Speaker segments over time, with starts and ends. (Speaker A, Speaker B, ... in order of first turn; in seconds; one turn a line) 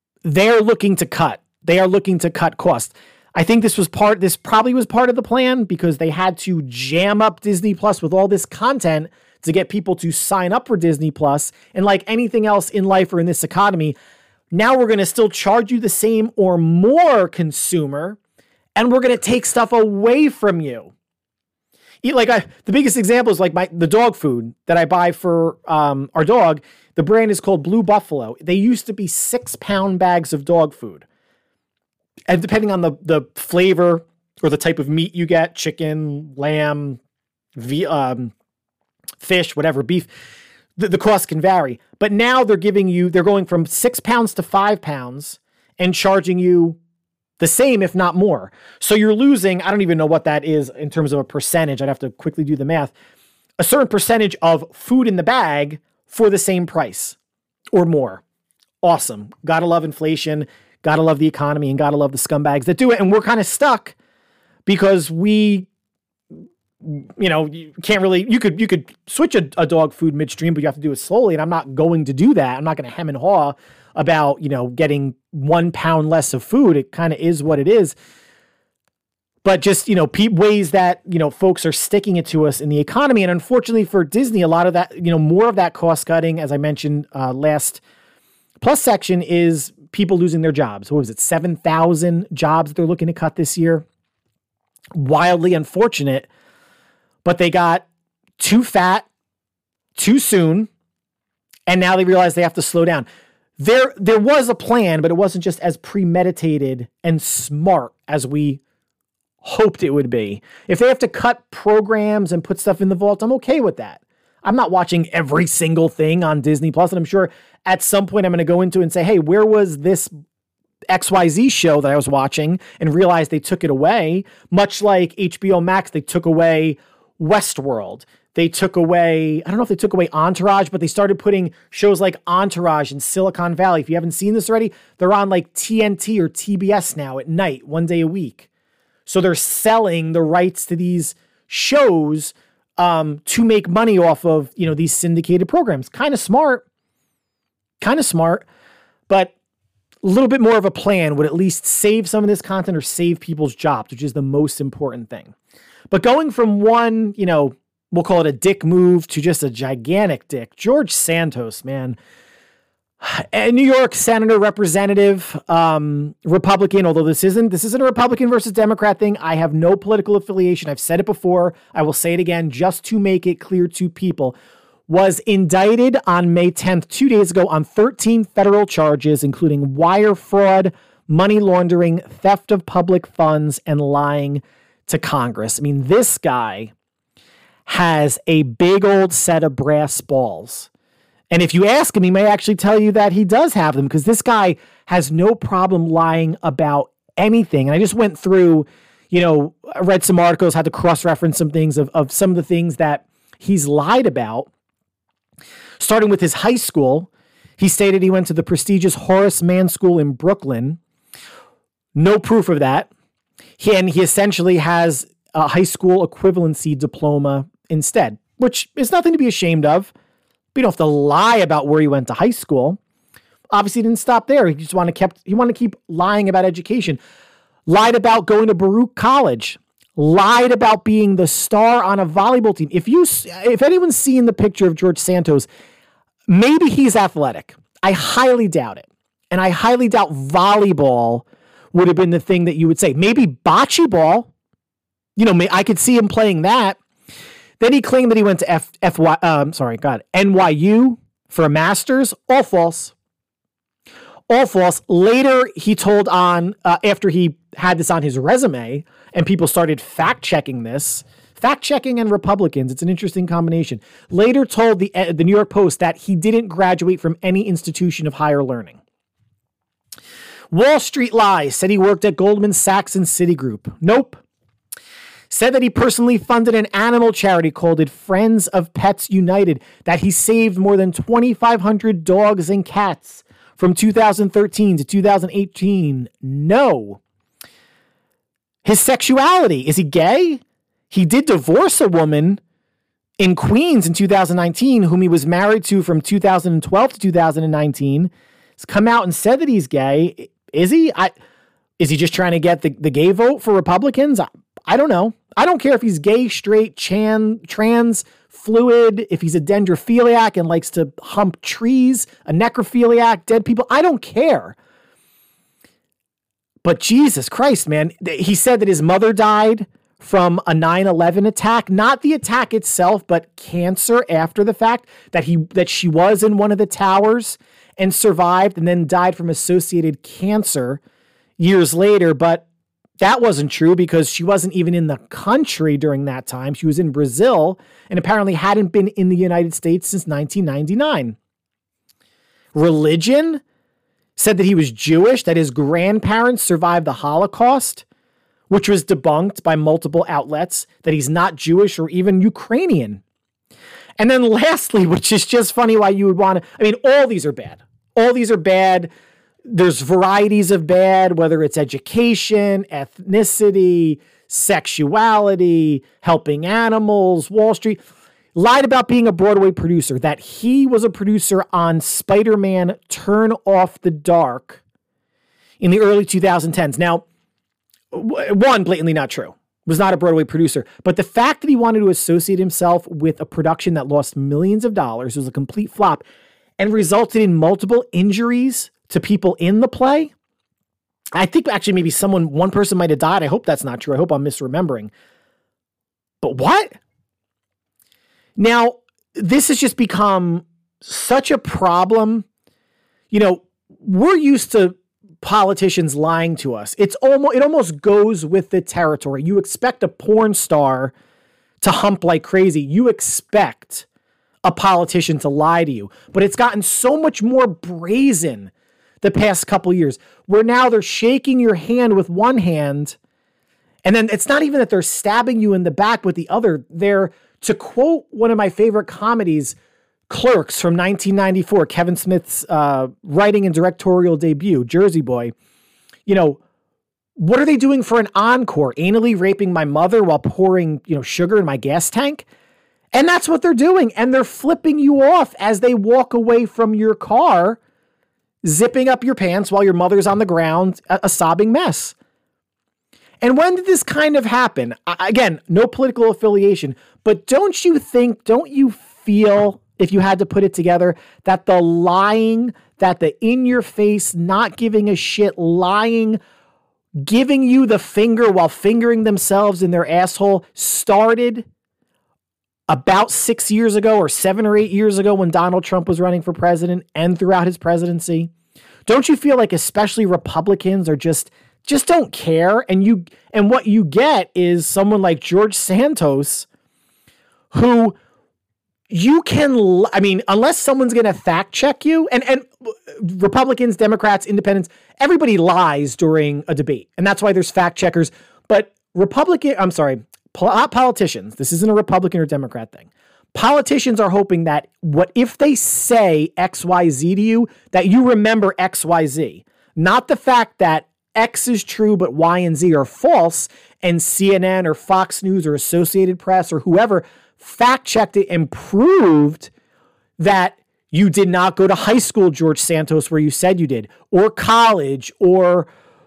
Speaker A: 0.2-14.0
Speaker A: 14.5-18.2
Speaker A: 18.8-20.9
Speaker A: 22.0-31.1
Speaker A: 32.3-37.0
Speaker A: 37.6-38.3
Speaker A: 39.2-40.1
Speaker A: 40.8-46.8
Speaker A: 47.4-52.9
Speaker A: 53.6-57.2
Speaker A: 57.7-58.2
Speaker A: 58.8-64.0
Speaker A: 64.7-65.7
Speaker A: 66.8-78.0
Speaker A: 79.4-87.8
Speaker A: 88.6-93.8
Speaker A: 95.0-96.3
Speaker A: 97.2-97.9
Speaker A: 98.4-99.1
Speaker A: 100.0-100.7
Speaker A: 101.7-103.1
Speaker A: 103.6-108.6
Speaker A: 109.4-120.1
Speaker A: 120.9-138.5
Speaker A: 139.1-146.6
Speaker A: 147.8-148.4
Speaker A: 149.1-149.3
Speaker A: 150.0-155.3
Speaker A: 155.9-162.0
Speaker A: 163.0-174.4
Speaker A: 174.9-186.7
Speaker A: 187.7-190.7
Speaker A: 191.3-204.5
Speaker A: 205.8-210.8
Speaker A: 211.9-212.9
Speaker A: 213.6-219.9
Speaker A: 220.6-222.8
Speaker A: 223.5-227.0
Speaker A: 227.7-235.5
Speaker A: 236.3-244.3
Speaker A: 245.2-246.8
Speaker A: 247.6-252.9
Speaker A: 254.3-268.8
Speaker A: 270.5-274.2
Speaker A: 275.3-287.0
Speaker A: 288.6-292.4
Speaker A: 293.2-301.1
Speaker A: 301.8-314.6
Speaker A: 316.6-330.8
Speaker A: 331.4-332.5
Speaker A: 333.0-341.2
Speaker A: 342.5-343.4
Speaker A: 344.2-347.8
Speaker A: 348.5-353.0
Speaker A: 354.0-358.9
Speaker A: 359.5-367.8
Speaker A: 368.4-374.6
Speaker A: 375.6-377.0
Speaker A: 377.9-386.0
Speaker A: 386.6-390.1
Speaker A: 391.2-394.9
Speaker A: 396.2-396.7
Speaker A: 398.4-402.3
Speaker A: 403.1-410.9
Speaker A: 411.6-413.9
Speaker A: 414.4-418.5
Speaker A: 419.0-423.0
Speaker A: 423.9-429.6
Speaker A: 430.1-435.3
Speaker A: 436.1-436.4
Speaker A: 437.2-442.2
Speaker A: 442.9-447.6
Speaker A: 448.4-451.9
Speaker A: 453.2-466.2
Speaker A: 467.0-471.4
Speaker A: 472.7-478.3
Speaker A: 478.9-486.5
Speaker A: 487.5-488.0
Speaker A: 488.9-519.5
Speaker A: 520.2-525.7